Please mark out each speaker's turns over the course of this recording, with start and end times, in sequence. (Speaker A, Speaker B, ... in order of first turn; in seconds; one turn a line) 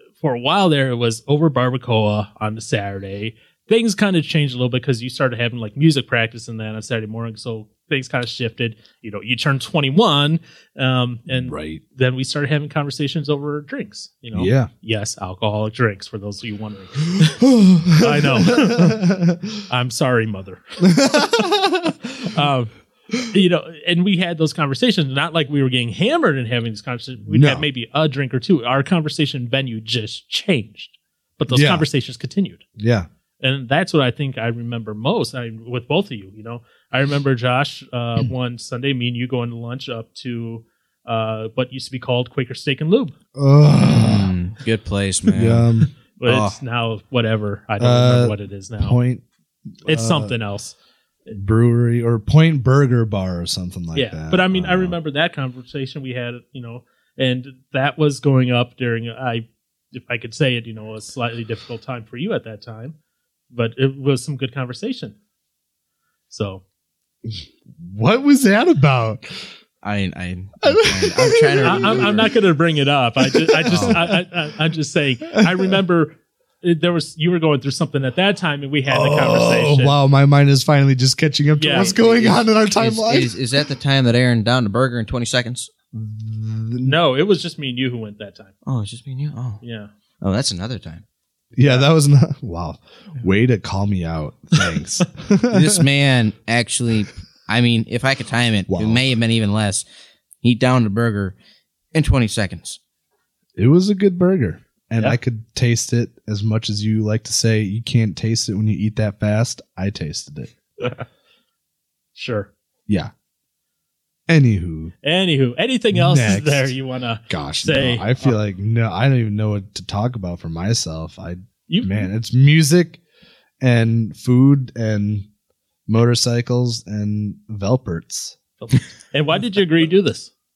Speaker A: 0.2-17.4
Speaker B: 11.3-11.8
Speaker B: 14.3-14.7
Speaker B: 17.2-19.6
Speaker A: 18.0-19.1
Speaker A: 19.7-21.5
Speaker B: 20.9-22.4
Speaker A: 22.2-22.7
Speaker A: 23.2-32.6
Speaker B: 27.3-27.7
Speaker B: 31.5-31.9
Speaker B: 32.8-33.1
Speaker A: 33.4-43.1
Speaker B: 43.4-44.3
Speaker C: 43.9-46.6
Speaker B: 45.3-45.9
Speaker A: 46.2-49.0
Speaker B: 47.8-49.2
Speaker B: 49.9-50.4
Speaker A: 49.9-50.8
Speaker B: 51.4-55.0
Speaker A: 53.9-63.0
Speaker A: 63.5-65.2
Speaker A: 66.3-66.6
Speaker B: 67.3-69.5
Speaker C: 69.8-72.4
Speaker B: 70.6-72.3
Speaker A: 71.6-80.0
Speaker B: 73.3-74.2
Speaker C: 73.7-74.0
Speaker B: 75.3-75.8
Speaker B: 78.9-83.4
Speaker A: 81.6-82.3
Speaker C: 81.9-85.7
Speaker B: 85.9-87.0
Speaker A: 86.8-88.5
Speaker C: 88.7-89.6
Speaker A: 89.6-89.9
Speaker C: 90.2-91.0
Speaker B: 91.5-95.9
Speaker C: 95.5-99.8
Speaker B: 98.7-99.1
Speaker C: 100.4-101.3
Speaker C: 101.9-102.8
Speaker B: 103.6-110.5
Speaker A: 112.2-112.5
Speaker B: 114.3-114.9
Speaker A: 115.0-118.4
Speaker B: 115.9-116.7
Speaker B: 117.3-123.0
Speaker A: 121.7-122.0
Speaker B: 123.6-125.3
Speaker B: 125.9-128.4
Speaker A: 128.6-130.3